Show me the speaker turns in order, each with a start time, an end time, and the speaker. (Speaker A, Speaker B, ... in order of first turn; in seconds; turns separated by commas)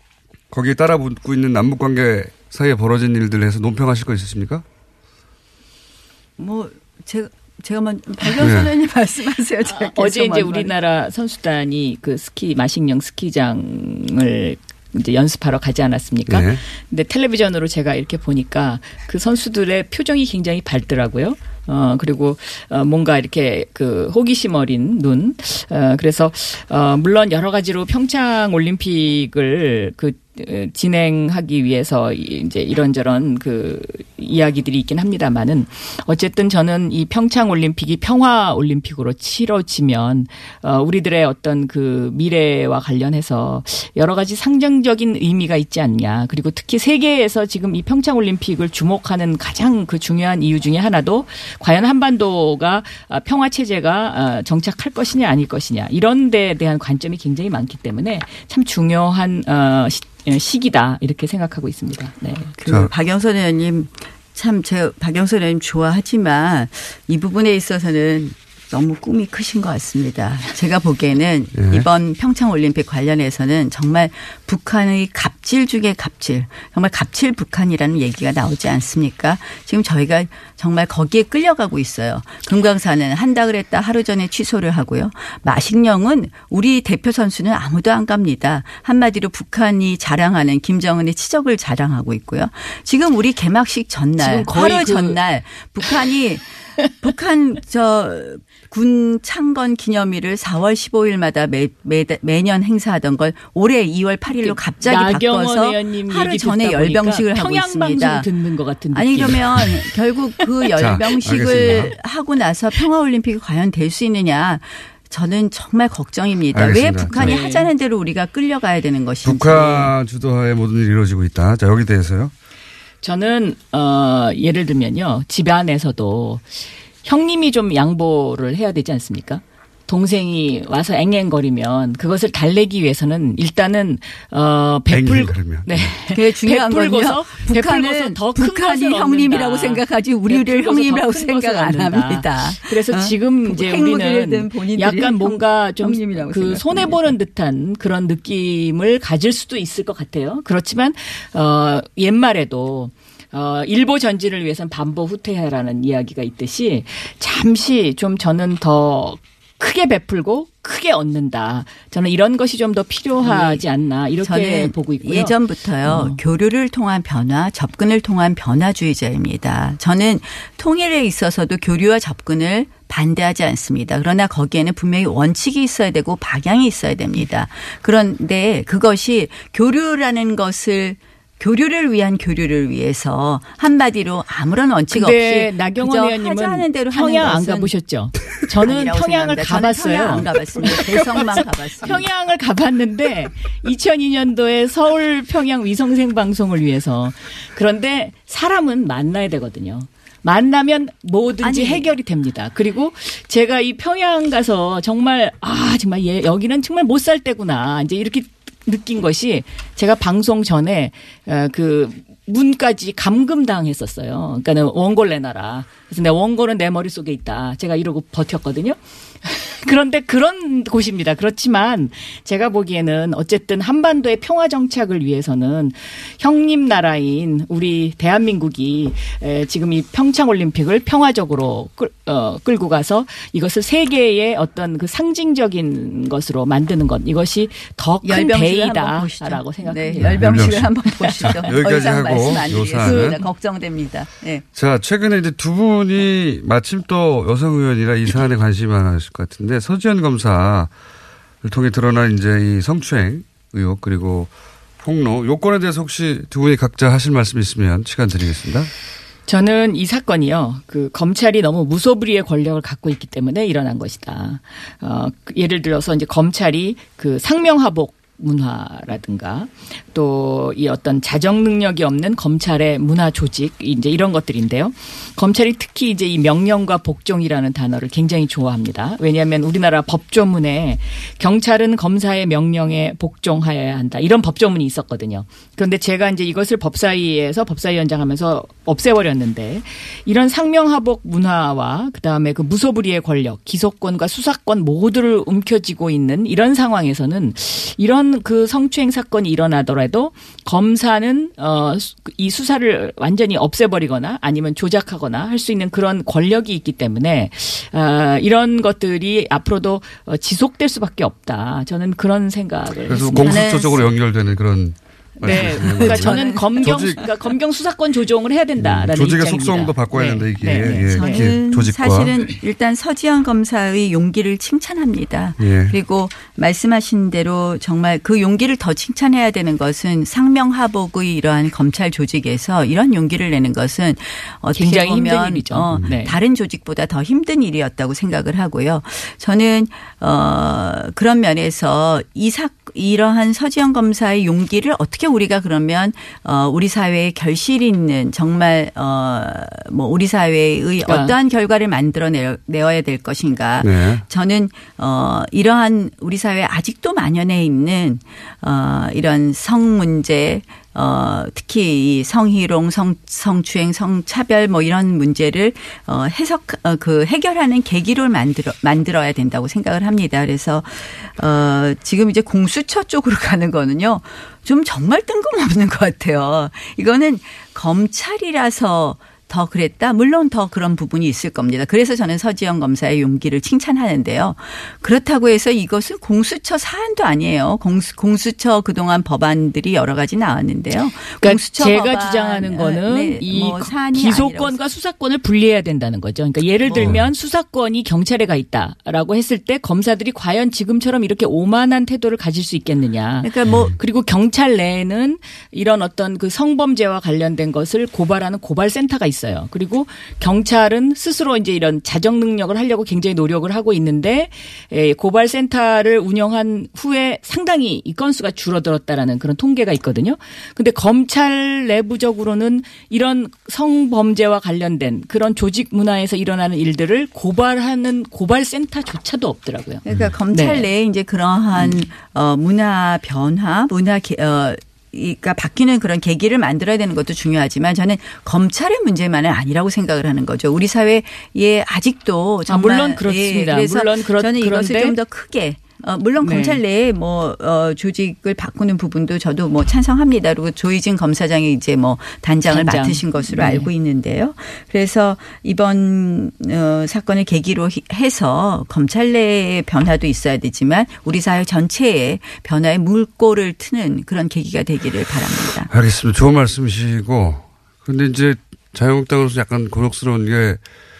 Speaker A: 0.5-4.7, Speaker B: 6.4-10.7, Speaker A: 8.4-8.7, Speaker C: 9.7-62.6, Speaker A: 16.3-16.6, Speaker B: 62.6-108.3, Speaker A: 62.7-62.9, Speaker A: 71.5-71.9, Speaker C: 94.2-95.2, Speaker C: 104.3-111.9, Speaker B: 108.9-119.9, Speaker A: 110.8-112.0, Speaker A: 116.5-117.4, Speaker C: 117.1-117.7, Speaker A: 119.2-122.3, Speaker C: 123.0-166.2, Speaker A: 134.9-135.9, Speaker B: 136.1-147.2, Speaker B: 163.2-163.7, Speaker B: 164.2-192.1, Speaker C: 184.9-243.3, Speaker B: 201.4-202.0, Speaker B: 238.0-244.4, Speaker A: 240.0-240.7, Speaker A: 241.2-243.2, Speaker A: 244.5-250.7, Speaker A: 251.4-258.7, Speaker C: 259.3-313.9, Speaker A: 312.9-317.1, Speaker B: 313.2-313.8, Speaker C: 315.2-321.4, Speaker B: 315.3-317.1, Speaker A: 318.6-322.1, Speaker B: 320.5-394.6, Speaker A: 325.4-325.8, Speaker C: 334.6-336.2, Speaker C: 350.8-351.1, Speaker A: 353.6-354.0, Speaker C: 391.2-430.7, Speaker B: 396.6-397.1, Speaker A: 396.7-397.0, Speaker B: 403.2-403.8, Speaker A: 403.5-403.7, Speaker B: 429.9-465.7, Speaker C: 431.6-431.8, Speaker C: 442.5-445.0, Speaker C: 446.2-446.6, Speaker C: 452.5-453.7, Speaker A: 465.7-470.6